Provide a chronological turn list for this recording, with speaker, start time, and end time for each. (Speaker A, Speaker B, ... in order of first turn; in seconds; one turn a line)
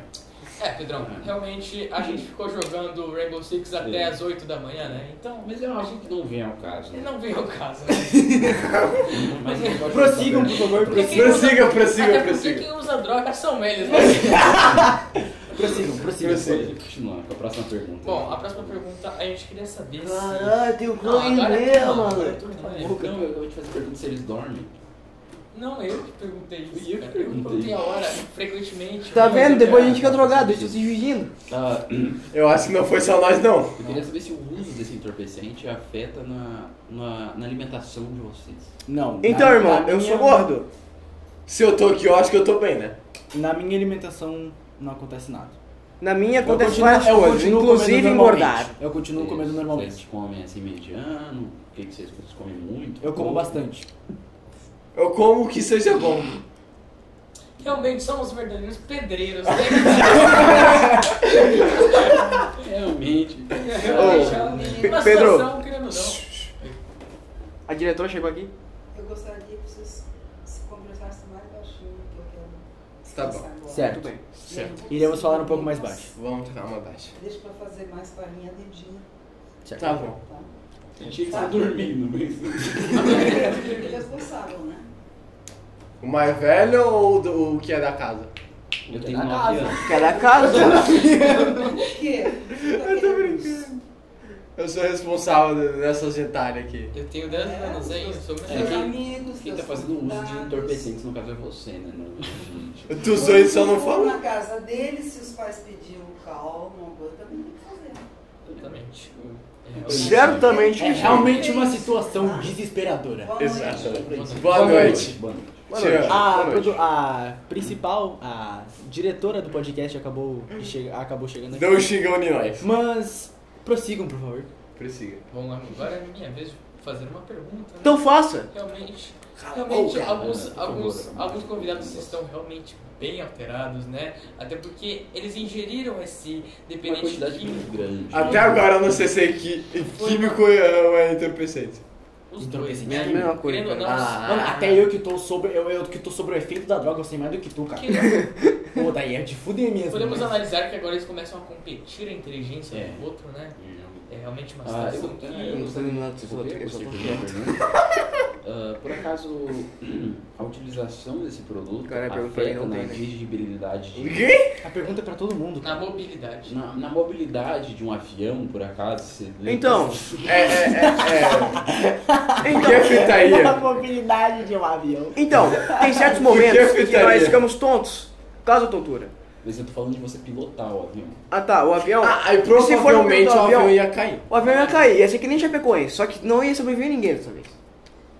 Speaker A: 0.6-5.9
Speaker B: 1.0-1.3
Speaker B: 2.0-2.2
Speaker B: 3.8-4.1
Speaker B: 5.4-7.1
Speaker A: 6.9-8.6
Speaker C: 8.1-8.8
Speaker B: 8.9-11.5
Speaker A: 9.5-9.8
Speaker C: 9.9-11.5
Speaker A: 10.8-14.8
Speaker D: 11.1-12.7
Speaker C: 13.9-16.6
Speaker B: 14.3-14.8
Speaker A: 15.5-15.8
Speaker D: 16.2-16.7
Speaker B: 16.3-18.8
Speaker A: 18.0-23.0
Speaker E: 20.0-23.2
Speaker B: 22.8-24.7
Speaker A: 25.5-29.9
Speaker B: 26.7-27.8
Speaker E: 29.1-31.3
Speaker B: 29.1-30.8
Speaker B: 31.5-32.2
Speaker D: 32.3-33.8
Speaker B: 33.8-38.7
Speaker C: 38.9-40.5
Speaker E: 39.2-40.7
Speaker D: 41.5-42.9
Speaker C: 43.3-45.5
Speaker E: 46.0-48.7
Speaker C: 46.4-50.0
Speaker B: 49.1-53.6
Speaker C: 53.0-53.9
Speaker D: 54.9-56.4
Speaker A: 57.6-62.4
Speaker B: 62.0-65.0
Speaker A: 63.5-66.8
Speaker E: 63.9-65.5
Speaker F: 64.3-64.7
Speaker E: 67.7-68.5
Speaker F: 68.9-70.0
Speaker F: 70.5-72.6
Speaker F: 73.1-73.8
Speaker D: 73.1-73.5
Speaker C: 73.6-74.1
Speaker E: 73.7-74.3
Speaker D: 74.3-74.8
Speaker F: 74.6-75.0
Speaker C: 74.8-76.1
Speaker D: 76.1-77.1
Speaker F: 77.2-79.0
Speaker D: 79.8-80.2
Speaker B: 81.0-83.8
Speaker A: 83.0-84.0
Speaker F: 83.5-84.8
Speaker D: 86.0-88.3
Speaker B: 88.9-90.6
Speaker A: 88.9-92.0
Speaker E: 89.8-91.2
Speaker C: 90.4-91.6
Speaker F: 92.0-93.4
Speaker D: 92.5-93.8
Speaker D: 94.5-96.9
Speaker A: 96.9-98.9
Speaker F: 97.5-100.5
Speaker B: 98.4-103.2
Speaker D: 102.9-104.2
Speaker F: 103.2-108.0
Speaker A: 108.5-110.7
Speaker B: 108.5-111.4
Speaker E: 109.9-111.4
Speaker C: 110.7-113.6
Speaker F: 111.3-111.8
Speaker F: 113.3-114.3
Speaker D: 113.3-115.2
Speaker A: 113.8-115.0
Speaker B: 114.0-115.6
Speaker E: 114.5-115.0
Speaker E: 115.7-116.8
Speaker D: 115.7-116.3
Speaker C: 116.0-121.9
Speaker D: 121.5-122.7
Speaker C: 122.6-124.5
Speaker D: 124.8-125.2
Speaker A: 125.3-138.7
Speaker E: 127.8-128.5
Speaker D: 129.4-130.0
Speaker B: 129.9-132.2
Speaker B: 136.8-139.0
Speaker D: 138.1-141.8
Speaker A: 139.8-140.4
Speaker A: 142.3-144.5
Speaker C: 142.4-143.3
Speaker E: 142.8-144.6
Speaker D: 143.8-144.8
Speaker C: 144.2-148.1
Speaker A: 147.8-148.3
Speaker C: 148.7-150.4
Speaker A: 149.9-153.6
Speaker B: 152.7-154.1
Speaker A: 154.1-155.7
Speaker B: 154.6-157.6
Speaker E: 155.5-157.3
Speaker B: 158.4-164.3
Speaker E: 161.9-163.0
Speaker E: 163.9-164.5
Speaker C: 164.6-165.8
Speaker A: 165.6-166.5
Speaker B: 166.4-170.5
Speaker E: 169.4-170.2
Speaker D: 170.2-171.6
Speaker C: 170.7-176.1
Speaker E: 172.4-173.2
Speaker D: 172.4-173.7
Speaker E: 175.2-179.1
Speaker D: 176.2-177.5
Speaker B: 179.4-181.2
Speaker E: 181.3-187.5
Speaker D: 182.0-184.3
Speaker B: 184.4-184.9